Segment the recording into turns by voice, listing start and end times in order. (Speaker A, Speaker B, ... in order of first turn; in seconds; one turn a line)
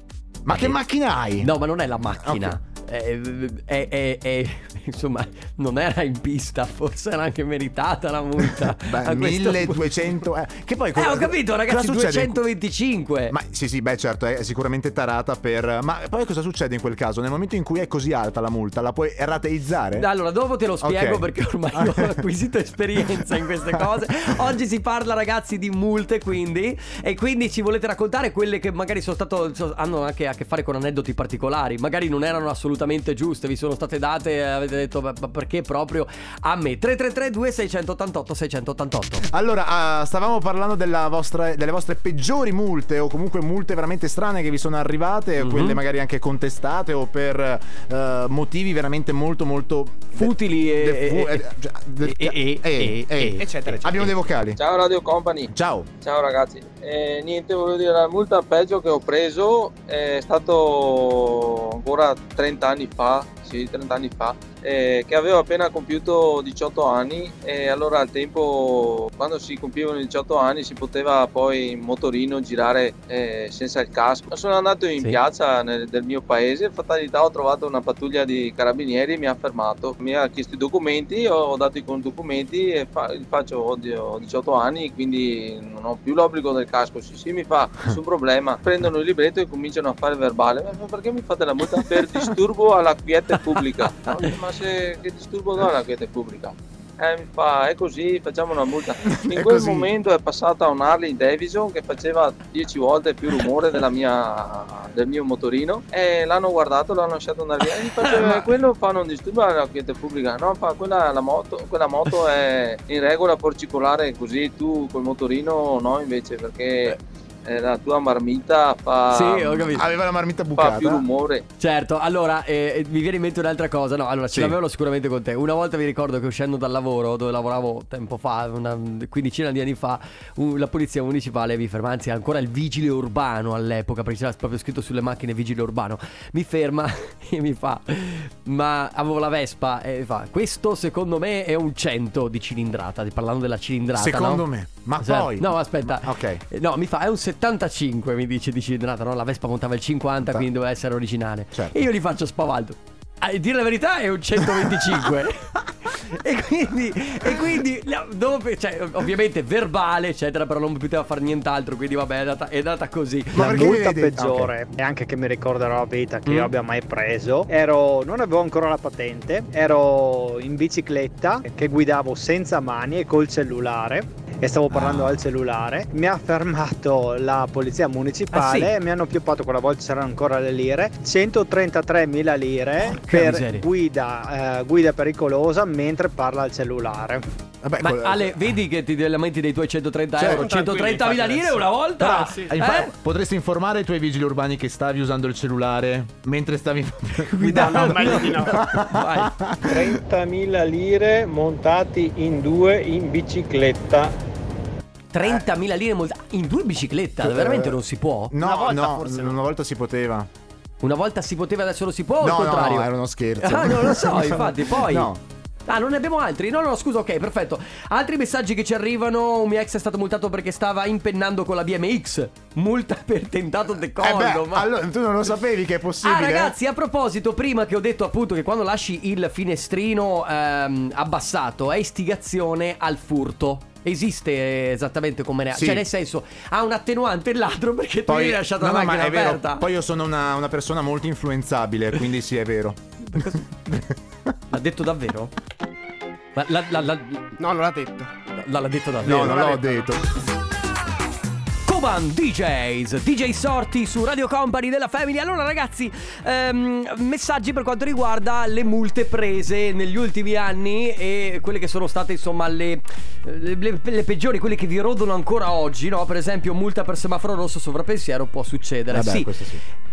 Speaker A: 0.4-1.5
Speaker B: 0.5-0.8
Speaker B: 1.4-9.9
Speaker A: 2.1-2.6
Speaker A: 8.5-12.4
Speaker B: 10.9-13.3
Speaker A: 13.3-20.1
Speaker B: 19.9-39.2
Speaker A: 20.8-22.2
Speaker A: 39.2-54.6
Speaker B: 45.4-45.8
Speaker B: 50.1-51.5
Speaker B: 52.0-53.5
Speaker C: 53.3-54.2
Speaker D: 54.6-119.8
Speaker A: 55.5-55.9
Speaker A: 99.0-99.9
Speaker B: 108.0-108.4
Speaker B: 119.1-119.8
Speaker A: 119.7-121.0
Speaker D: 120.5-121.4
Speaker B: 121.6-144.5
Speaker A: 124.3-124.6
Speaker A: 143.9-146.4
Speaker B: 145.0-163.4
Speaker A: 151.5-151.8
Speaker A: 154.5-155.0
Speaker A: 163.3-164.5
Speaker E: 163.3-187.2
Speaker B: 166.2-166.5
Speaker A: 174.7-175.0
Speaker B: 178.3-178.7
Speaker B: 182.8-183.6
Speaker A: 187.6-188.6
Speaker B: 187.8-192.9
Speaker A: 190.2-190.5
Speaker C: 190.3-192.5
Speaker A: 192.5-200.0
Speaker B: 197.3-199.4
Speaker C: 197.4-198.7
Speaker F: 199.6-204.1
Speaker B: 205.1-208.3
Speaker A: 207.2-207.8
Speaker A: 208.3-210.3
Speaker C: 208.4-209.4
Speaker B: 210.8-215.1
Speaker A: 212.2-215.2
Speaker B: 215.7-224.7
Speaker A: 224.0-226.5
Speaker B: 226.0-239.7
Speaker A: 235.5-235.8
Speaker A: 238.1-243.9
Speaker B: 243.1-243.8
Speaker B: 244.5-245.3
Speaker B: 246.3-247.3
Speaker C: 247.3-248.1
Speaker B: 248.3-249.9
Speaker A: 249.0-250.0
Speaker B: 251.7-269.4
Speaker A: 268.9-269.6